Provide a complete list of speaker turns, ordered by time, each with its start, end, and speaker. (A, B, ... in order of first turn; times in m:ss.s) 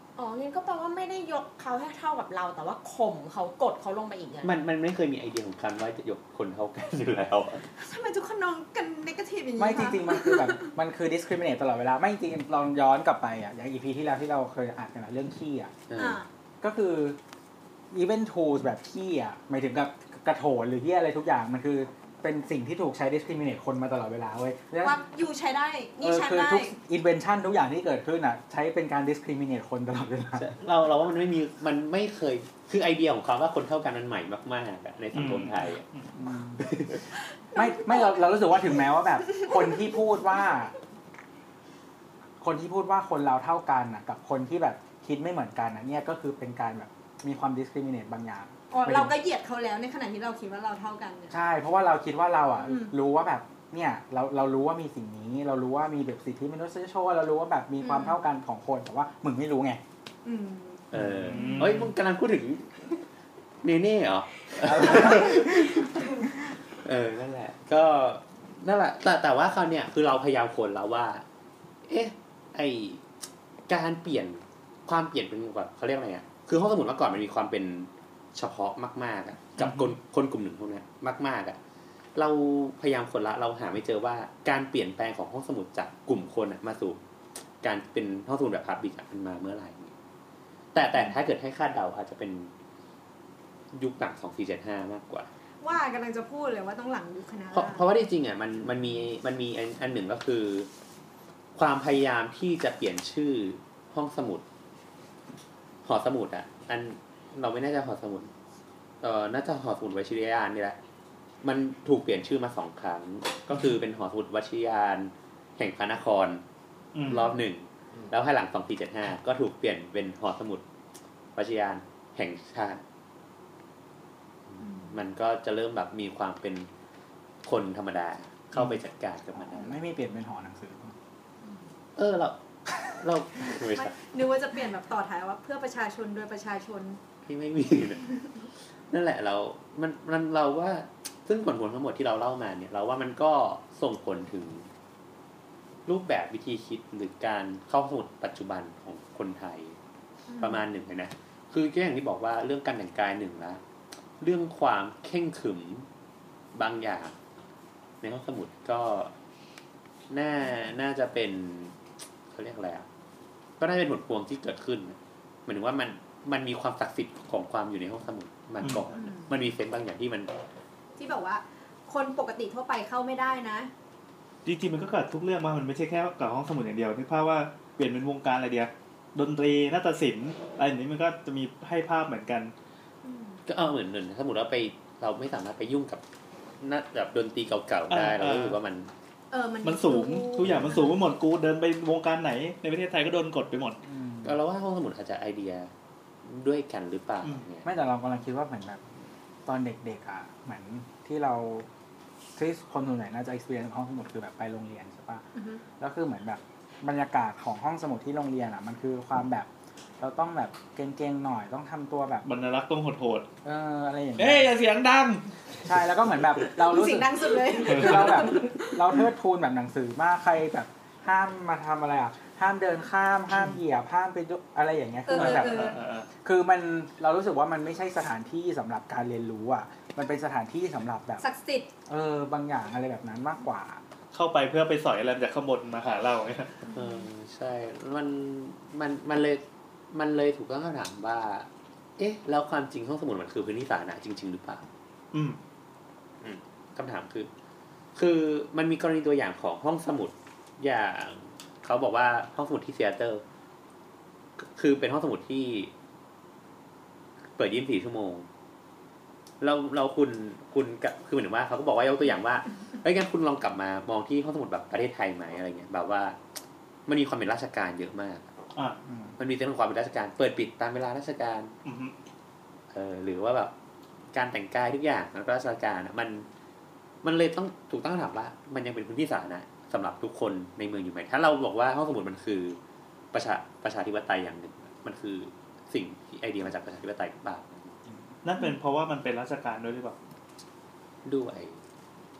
0:00.2-0:04.5 A
0:04.4-0:07.6 B
0:07.8-0:10.7 C
0:09.6-0:15.7 D
0:15.9-0:16.2 B
0:16.0-0:16.3 C
0:16.6-0:17.2 D
0:17.9-0:25.0 D
0:24.8-0:26.8 C
0:26.0-0:30.5 D
0:30.4-0:35.9 B
0:35.1-0:36.1 E
0:36.2-0:36.7 D
0:36.6-0:37.0 B
0:37.6-0:38.3 C
0:37.6-0:40.7 D
0:39.3-0:39.9 C
0:42.4-0:49.1 D
0:48.7-0:51.4 C
0:51.3-0:59.8 D
0:52.6-0:53.0 C
0:57.8-0:58.2 C
1:00.2-1:01.7 C
1:00.9-1:02.9 B
1:01.0-1:01.9 E
1:03.6-1:11.2 B
1:04.7-1:05.3 D
1:11.9-1:13.1 B
1:13.7-1:21.6 B
1:19.6-1:19.9 E
1:22.2-1:27.0 B
1:27.6-1:29.9 B
1:30.7-1:32.5 B
1:33.7-1:35.3 B
1:35.6-1:37.9 C
1:37.5-1:40.7 B
1:41.6-1:44.4 B
1:45.8-1:48.3 B
1:49.0-1:50.8 B
1:51.4-1:56.4 B
1:56.9-1:57.3 E
1:57.1-2:00.6 B
2:01.4-2:02.8 B
2:04.5-2:06.7 B
2:04.6-2:05.0 C
2:07.4-2:09.8 B
2:09.4-2:11.0 D
2:12.0-2:14.0 B
2:13.6-2:17.0 C
2:17.2-2:18.1 B
2:18.9-2:24.7 B
2:25.9-2:29.8 B
2:30.3-2:30.6 C
2:30.4-2:33.6 B
2:34.2-2:35.9 B
2:36.5-2:37.2 B
2:38.0-2:39.1 B
2:40.1-2:41.8 B
2:42.3-2:42.9 B
2:43.6-2:50.3 B
2:48.6-2:48.9 E
2:48.9-2:49.3 C
2:51.0-2:53.7 C
2:54.4-3:02.5 E
3:03.0-3:03.4 C
3:03.5-3:06.0 B
3:06.6-3:08.9 B
3:07.9-3:08.6 E
3:09.3-3:11.0 C
3:09.6-3:13.8 E
3:10.4-3:10.8 B
3:13.9-3:14.4 D
3:14.2-3:15.7 B
3:16.2-3:17.7 B
3:17.6-3:18.8 D
3:19.5-3:21.7 D
3:22.4-3:25.3 D
3:25.4-3:25.6 C
3:25.8-3:29.5 D
3:30.0-3:32.3 D
3:32.2-3:33.3 E
3:33.4-3:34.6 D
3:34.2-3:35.3 E
3:35.6-3:51.3 D
3:36.6-3:38.8 C
3:37.7-3:38.4 E
3:45.1-3:45.8 C
3:45.2-3:46.1 E
3:51.2-3:51.7 C
3:51.9-3:53.8 D
3:54.1-3:56.6 E
3:56.7-3:57.1 C
3:56.7-4:04.6 B
4:05.1-4:05.4 E
4:06.2-4:07.3 B
4:08.0-4:13.2 B
4:14.4-4:15.7 B
4:17.4-4:18.3 B
4:19.4-4:26.2 B
4:26.9-4:28.3 B
4:28.6-4:28.8 E
4:28.9-4:29.2 D
4:29.2-4:31.5 B
4:31.6-4:32.0 E
4:32.7-4:33.5 B
4:34.1-4:36.3 B
4:37.0-4:42.6 B
4:43.1-4:47.7 B
4:48.2-4:50.0 E
4:51.0-4:51.6 B